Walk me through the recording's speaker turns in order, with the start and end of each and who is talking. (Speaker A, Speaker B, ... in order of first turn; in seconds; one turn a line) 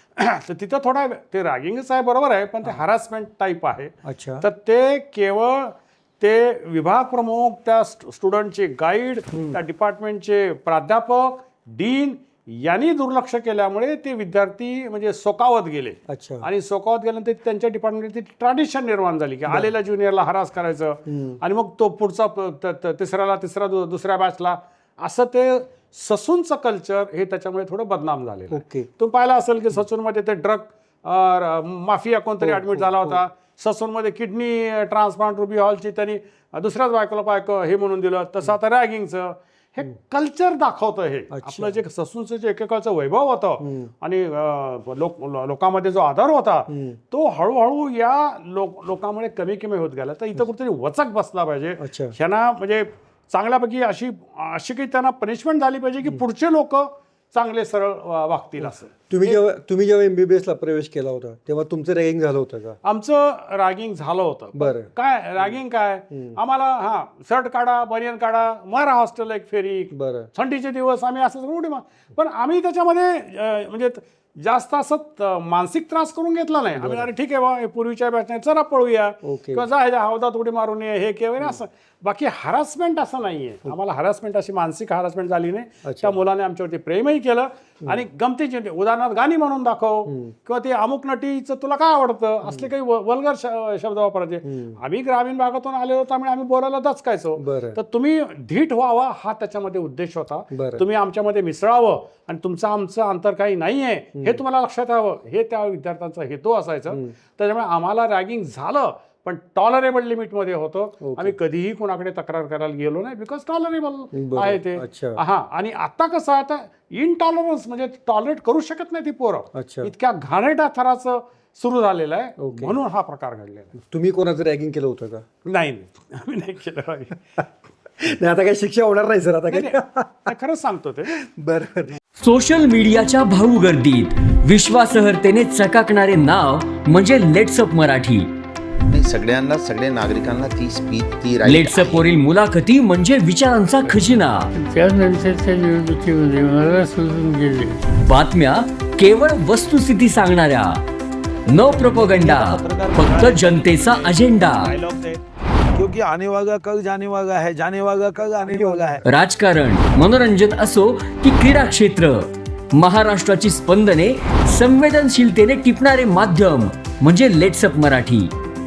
Speaker A: 0.2-59.4
Speaker B: 4.0-4.4
Speaker B: 16.1-16.5
Speaker B: 21.1-21.4
Speaker B: 28.5-28.9
Speaker B: 32.4-33.2
Speaker B: 41.3-41.8
Speaker B: 43.6-43.9
Speaker B: 46.7-47.0
Speaker B: 51.8-52.1
Speaker B: 58.6-62.8
Speaker A: 62.8-123.8
Speaker B: 64.5-65.6
Speaker B: 66.1-66.4
Speaker B: 69.9-70.3
Speaker B: 76.7-77.1
Speaker B: 79.2-79.6
Speaker B: 85.8-86.2
Speaker B: 90.1-90.3
Speaker B: 94.4-94.8
Speaker B: 97.4-97.8
Speaker B: 100.5-100.8
Speaker B: 111.0-111.3
Speaker B: 114.1-115.2
Speaker B: 119.5-119.9
Speaker B: 122.4-122.7
Speaker B: 123.8-125.2
Speaker A: 125.5-127.2
Speaker B: 128.0-130.3
Speaker A: 129.5-131.2
Speaker B: 131.3-132.0
Speaker C: 132.2-138.3
Speaker D: 138.9-142.1
Speaker C: 141.4-144.5
Speaker E: 144.5-147.8
Speaker C: 148.0-150.8
Speaker C: 151.5-154.7
Speaker F: 151.7-155.2
Speaker F: 155.7-159.0
Speaker B: 158.3-159.0
Speaker C: 159.1-168.3